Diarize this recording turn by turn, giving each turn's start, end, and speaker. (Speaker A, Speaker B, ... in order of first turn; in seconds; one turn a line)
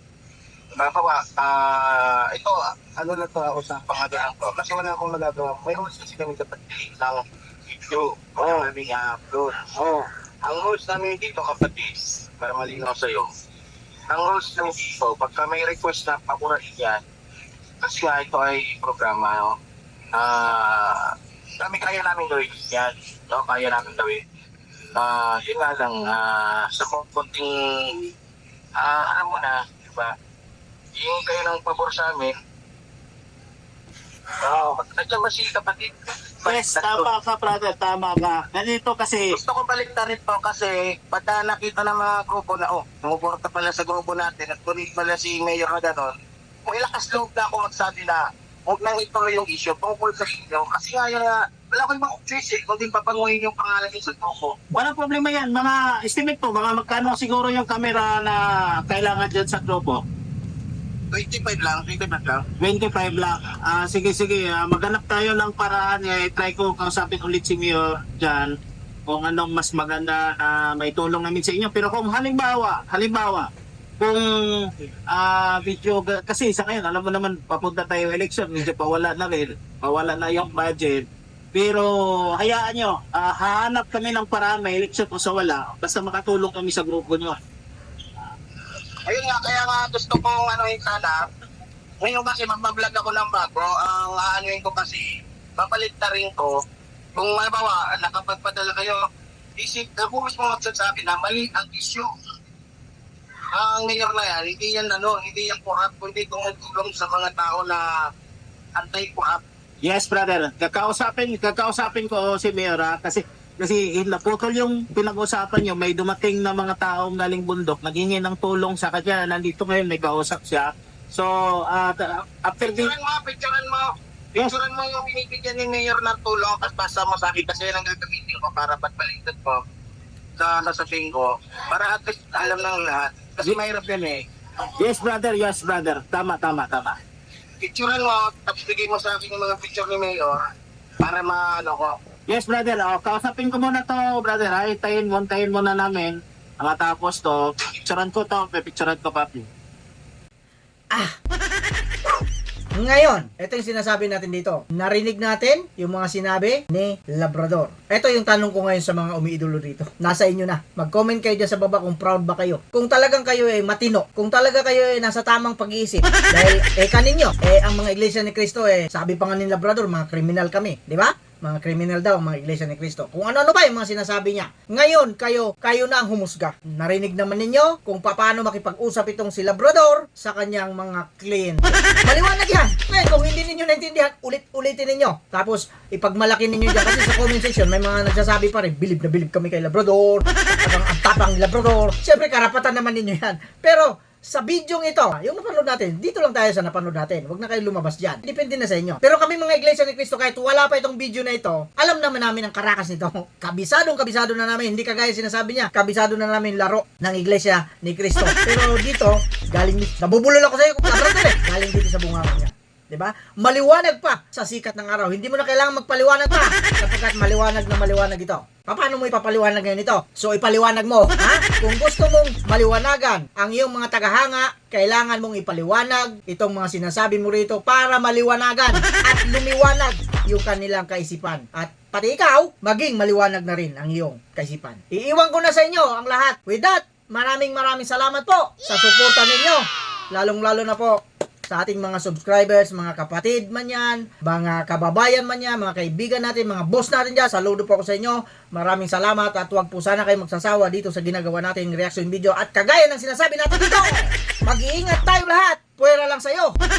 Speaker A: 0.8-13.3
Speaker A: 14.1-17.0
Speaker A: 17.8-19.6
Speaker A: 20.1-24.2
Speaker A: 24.9-28.1
Speaker A: 28.8-30.1
Speaker A: 30.9-32.4
Speaker A: 34.4-37.1
Speaker B: 36.4-39.4
Speaker A: 39.3-54.6
Speaker B: 54.7-60.0
Speaker A: 61.1-62.5
Speaker B: 62.6-68.5
Speaker B: 69.1-73.5
Speaker B: 74.0-87.4
Speaker A: 89.1-91.3
Speaker A: 92.0-96.6
Speaker A: 97.1-99.1
Speaker A: 99.6-102.1
Speaker A: 103.5-107.9
Speaker A: 108.8-109.4
Speaker B: 109.8-122.9
Speaker A: 122.6-129.6
Speaker A: 130.4-134.2
Speaker B: 134.6-137.0
Speaker A: 137.6-140.4
Speaker A: 141.0-142.0
Speaker B: 142.3-149.5
Speaker C: 150.9-151.2
Speaker C: 152.8-256.6